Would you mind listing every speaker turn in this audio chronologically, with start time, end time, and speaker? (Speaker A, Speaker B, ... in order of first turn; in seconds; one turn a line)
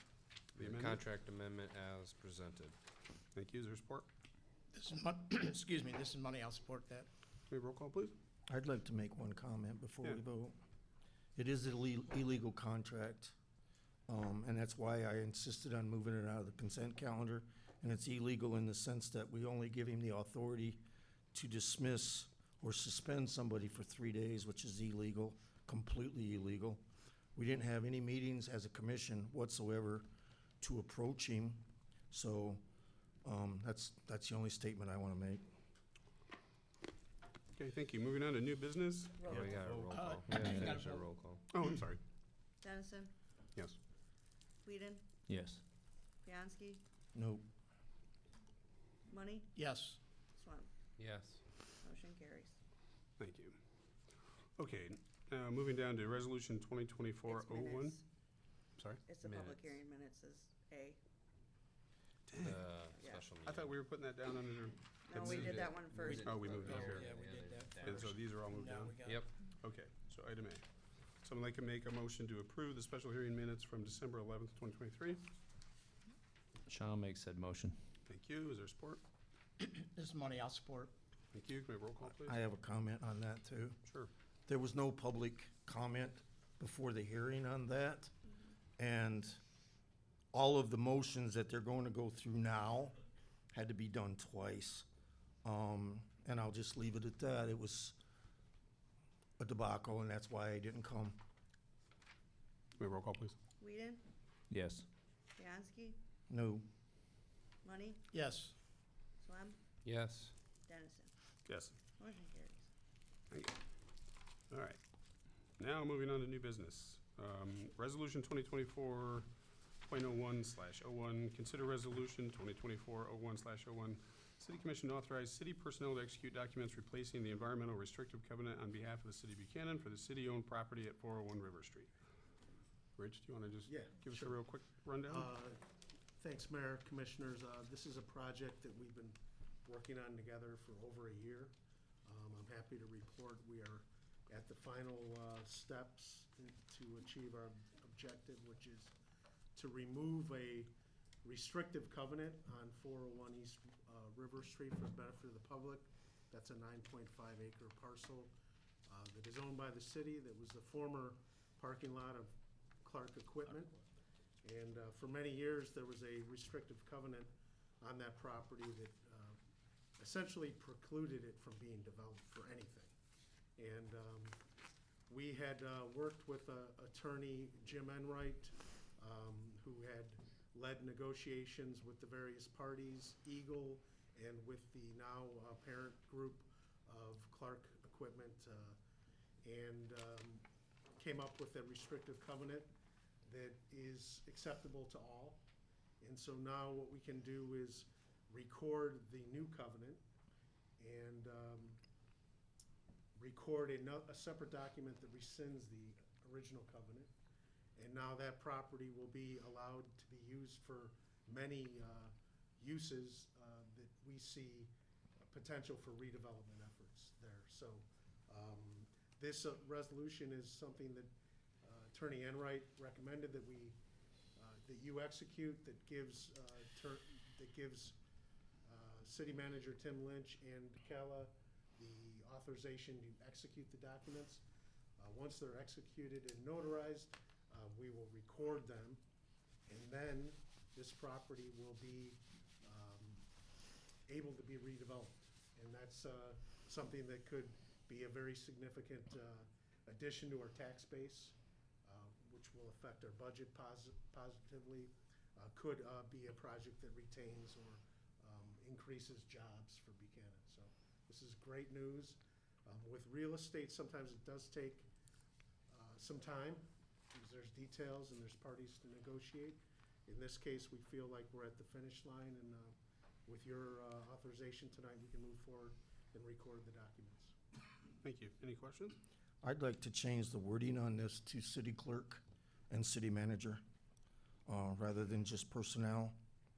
Speaker A: 0.6-2.8
Speaker B: 0.6-1.1
Speaker B: 3.4-4.1
Speaker C: 4.7-7.1
Speaker B: 7.5-8.2
Speaker D: 8.5-10.6
Speaker D: 11.4-13.3
Speaker D: 14.1-20.8
Speaker D: 21.3-26.8
Speaker D: 27.4-30.1
Speaker D: 30.6-32.6
Speaker D: 33.2-35.5
Speaker B: 37.6-39.3
Speaker E: 39.2-39.6
Speaker A: 39.3-41.5
Speaker D: 39.3-40.0
Speaker C: 39.9-41.1
Speaker B: 41.5-42.0
Speaker E: 42.6-43.1
Speaker E: 44.6-45.0
Speaker F: 45.3-45.6
Speaker E: 46.2-46.8
Speaker D: 47.1-47.4
Speaker E: 49.1-49.6
Speaker C: 49.6-50.0
Speaker E: 50.3-50.7
Speaker A: 51.0-51.4
Speaker E: 51.8-52.6
Speaker B: 53.2-53.6
Speaker B: 54.6-58.0
Speaker E: 57.3-58.1
Speaker B: 58.8-59.0
Speaker E: 59.0-61.0
Speaker A: 59.2-59.8
Speaker B: 62.3-62.7
Speaker A: 62.5-63.8
Speaker E: 63.0-63.3
Speaker B: 63.4-65.5
Speaker E: 65.0-66.9
Speaker C: 65.2-69.2
Speaker A: 65.3-68.0
Speaker B: 66.2-67.1
Speaker B: 67.8-70.7
Speaker A: 69.0-69.4
Speaker B: 71.2-75.2
Speaker F: 76.7-77.8
Speaker B: 78.1-79.0
Speaker C: 79.6-80.9
Speaker B: 81.3-82.4
Speaker D: 82.2-83.8
Speaker D: 84.5-88.1
Speaker D: 88.8-89.4
Speaker D: 90.3-93.0
Speaker D: 93.5-94.9
Speaker D: 95.4-98.0
Speaker D: 99.4-101.2
Speaker B: 102.8-103.4
Speaker E: 103.6-104.0
Speaker F: 104.5-104.9
Speaker E: 105.4-106.0
Speaker D: 106.3-106.7
Speaker E: 107.6-108.0
Speaker C: 108.1-108.5
Speaker E: 109.2-109.6
Speaker A: 109.8-110.3
Speaker E: 110.7-111.1
Speaker B: 111.5-111.8
Speaker E: 112.0-112.7
Speaker B: 113.3-113.6
Speaker B: 114.5-114.8
Speaker B: 115.6-119.3
Speaker B: 119.9-131.9
Speaker B: 133.0-135.3
Speaker G: 133.7-134.4
Speaker G: 135.0-135.6
Speaker G: 136.2-141.5
Speaker G: 142.1-148.9
Speaker G: 149.6-158.3
Speaker G: 158.9-162.3
Speaker G: 162.8-163.8
Speaker G: 164.4-169.4
Speaker G: 170.0-172.9
Speaker G: 173.6-174.4
Speaker G: 175.1-188.8
Speaker G: 189.4-190.4
Speaker G: 191.0-192.7
Speaker G: 193.2-195.4
Speaker G: 196.0-200.0
Speaker G: 200.8-201.8
Speaker G: 203.2-207.1
Speaker G: 207.8-214.7
Speaker G: 215.3-221.1
Speaker G: 221.6-223.8
Speaker G: 224.4-228.0
Speaker G: 228.7-234.4
Speaker G: 235.0-239.0
Speaker G: 239.7-243.3
Speaker G: 244.1-264.9
Speaker G: 265.7-272.8
Speaker G: 273.3-277.3
Speaker B: 278.0-279.0
Speaker D: 279.4-283.6
Speaker D: 284.5-286.1